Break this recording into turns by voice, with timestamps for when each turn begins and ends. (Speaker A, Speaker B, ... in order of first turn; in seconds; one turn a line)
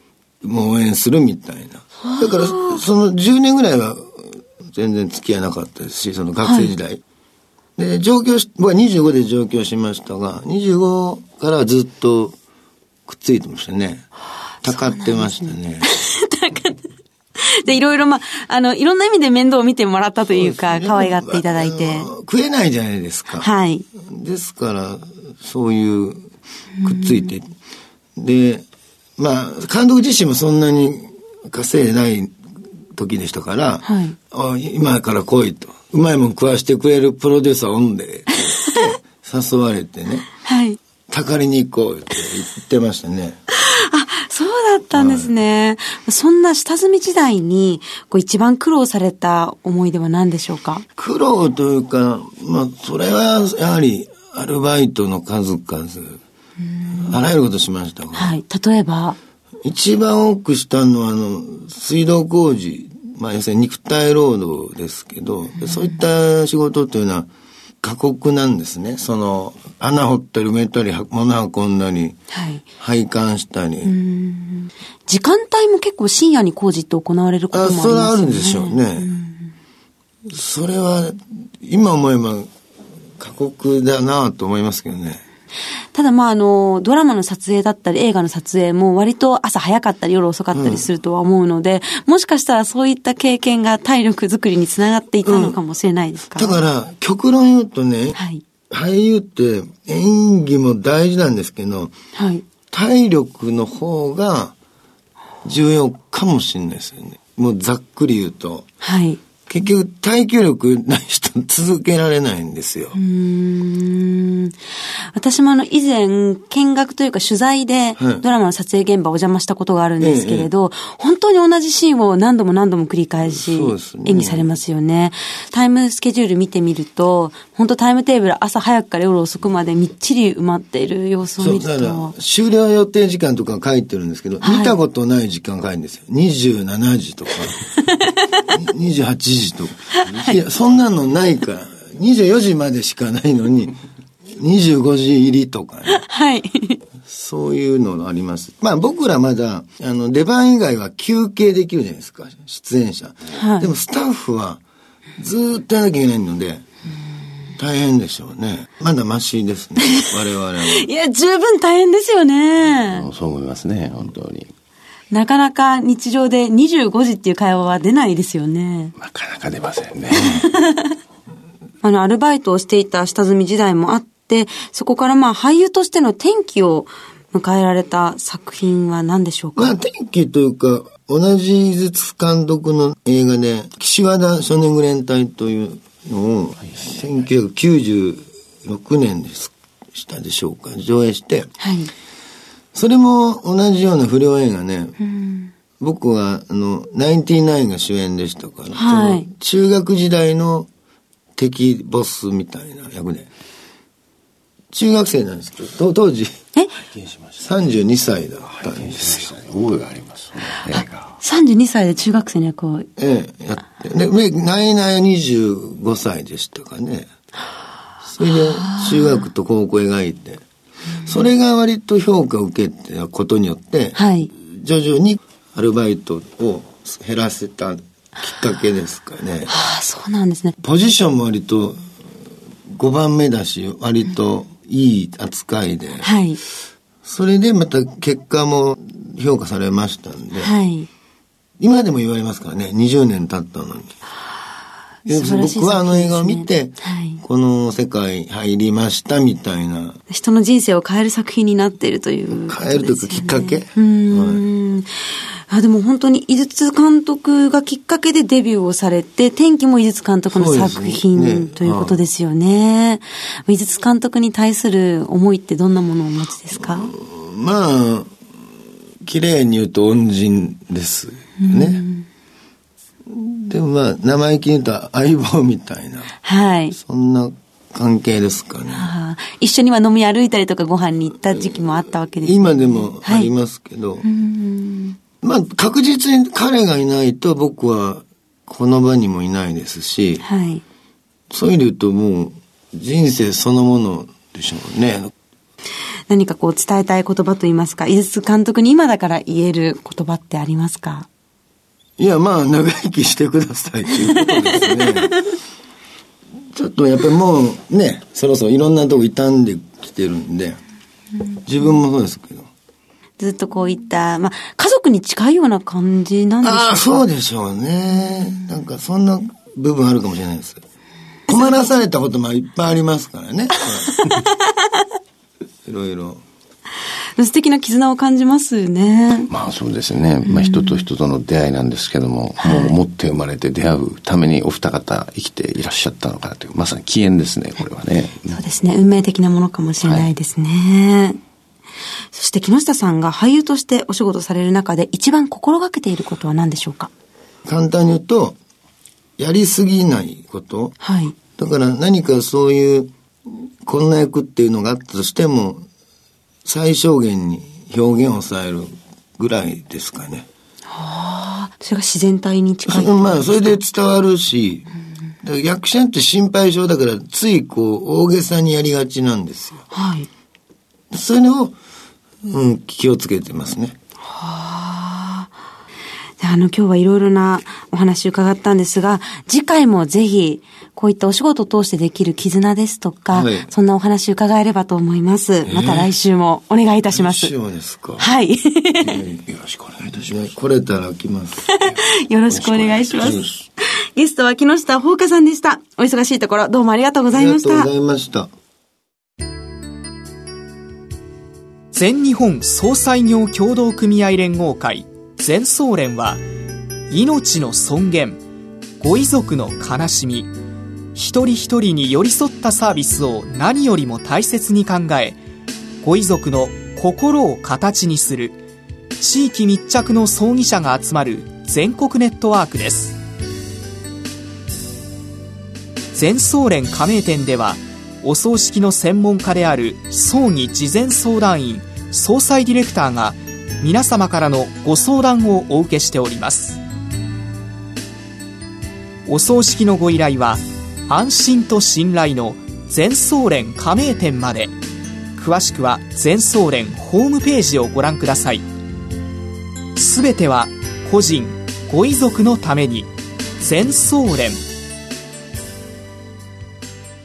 Speaker A: 0.4-7.0
Speaker B: 2.0-2.8
Speaker B: 6.4-6.7
Speaker A: 7.8-12.4
Speaker A: 13.1-14.1
Speaker A: 14.6-15.9
Speaker B: 14.6-16.8
Speaker B: 17.4-22.1
Speaker A: 20.3-23.5
Speaker B: 23.4-23.9
Speaker A: 24.1-26.3
Speaker B: 26.8-27.3
Speaker A: 26.8-27.5
Speaker A: 28.2-28.7
Speaker A: 29.2-32.3
Speaker A: 33.0-40.3
Speaker B: 33.9-34.1
Speaker B: 40.4-40.8
Speaker A: 41.1-43.4
Speaker B: 43.6-50.8
Speaker A: 44.9-45.3
Speaker A: 51.0-56.2
Speaker B: 56.7-57.2
Speaker A: 57.0-58.4
Speaker B: 58.1-59.2
Speaker A: 59.6-67.3
Speaker B: 65.6-65.9
Speaker A: 67.8-72.2
Speaker B: 72.3-72.6
Speaker A: 72.8-73.9
Speaker B: 73.8-79.5
Speaker A: 77.5-79.1
Speaker A: 80.3-82.5
Speaker A: 83.2-85.2
Speaker B: 85.9-96.6
Speaker A: 90.5-90.9
Speaker A: 95.2-95.6
Speaker A: 96.3-98.2
Speaker B: 98.2-98.4
Speaker A: 98.7-101.9
Speaker B: 102.2-102.4
Speaker A: 102.7-104.5
Speaker A: 105.4-108.7
Speaker B: 108.8-109.2
Speaker A: 109.5-113.0
Speaker B: 112.9-132.1
Speaker A: 118.0-118.2
Speaker A: 120.0-120.5
Speaker A: 123.2-124.5
Speaker A: 131.4-137.6
Speaker B: 134.4-134.8
Speaker B: 137.8-138.2
Speaker A: 138.5-143.8
Speaker A: 144.4-146.0
Speaker B: 145.9-146.8
Speaker A: 147.1-154.6
Speaker B: 153.3-153.7
Speaker A: 155.2-156.7
Speaker A: 157.6-160.9
Speaker B: 160.7-163.1
Speaker C: 162.9-164.5
Speaker B: 165.1-168.9
Speaker C: 169.0-170.5
Speaker B: 170.2-170.9
Speaker B: 171.8-179.8
Speaker A: 179.6-191.5
Speaker B: 191.6-191.9
Speaker A: 192.7-195.0
Speaker B: 195.0-195.5
Speaker A: 195.8-200.7
Speaker B: 198.7-199.3
Speaker A: 201.4-203.3
Speaker A: 204.7-206.3
Speaker C: 207.0-207.4
Speaker A: 207.4-209.3
Speaker C: 208.6-211.1
Speaker B: 210.7-212.9
Speaker A: 213.0-217.1
Speaker A: 218.1-220.4
Speaker B: 218.4-219.2
Speaker A: 221.0-229.5
Speaker B: 223.9-224.3
Speaker B: 229.5-230.6
Speaker A: 230.6-231.8
Speaker A: 232.7-236.1
Speaker B: 236.0-236.4
Speaker A: 237.1-240.5
Speaker B: 240.4-240.9
Speaker A: 241.6-243.9
Speaker B: 245.1-247.2
Speaker A: 245.1-250.0
Speaker B: 250.1-266.9
Speaker A: 252.3-254.4
Speaker A: 260.3-262.0
Speaker A: 266.7-268.1
Speaker A: 269.0-271.9
Speaker B: 271.4-272.1
Speaker A: 273.1-276.1
Speaker B: 276.2-276.8
Speaker A: 276.8-278.9
Speaker B: 278.7-283.3
Speaker A: 282.2-284.1
Speaker B: 284.0-285.0
Speaker A: 285.2-290.2
Speaker B: 290.2-290.6
Speaker A: 291.3-295.1
Speaker B: 296.1-301.1
Speaker A: 302.0-305.2
Speaker B: 304.2-304.7
Speaker A: 306.6-310.6
Speaker A: 311.5-312.5
Speaker B: 313.2-317.0
Speaker A: 316.4-320.6
Speaker A: 321.3-323.9
Speaker B: 321.3-321.6
Speaker B: 323.9-324.4
Speaker A: 325.7-326.2
Speaker B: 327.2-329.3
Speaker C: 329.3-338.4
Speaker B: 330.2-330.9
Speaker B: 332.4-332.8
Speaker B: 338.3-341.2
Speaker C: 339.8-340.1
Speaker B: 342.1-346.9
Speaker A: 347.4-348.4
Speaker A: 349.2-350.8
Speaker B: 350.8-351.1
Speaker A: 351.4-355.6
Speaker A: 356.4-360.3
Speaker B: 360.7-363.6
Speaker A: 362.7-364.7
Speaker A: 365.2-369.6
Speaker B: 369.7-370.1
Speaker A: 370.9-371.6
Speaker A: 372.3-373.8
Speaker B: 374.1-375.3
Speaker B: 376.2-387.3
Speaker A: 383.1-383.5
Speaker A: 385.5-385.9
Speaker A: 386.9-388.1
Speaker B: 388.0-389.0
Speaker A: 388.9-389.3
Speaker C: 389.3-389.9
Speaker A: 389.9-391.5
Speaker B: 391.5-393.2
Speaker C: 392.3-393.2
Speaker A: 392.9-393.3
Speaker B: 393.9-397.7
Speaker A: 397.1-398.3
Speaker D: 401.7-406.2
Speaker D: 406.9-408.2
Speaker D: 408.8-410.3
Speaker D: 410.9-415.2
Speaker D: 415.8-418.4
Speaker D: 419.0-423.0
Speaker D: 425.9-436.6
Speaker D: 439.1-444.5
Speaker D: 445.2-448.4
Speaker D: 449.8-454.4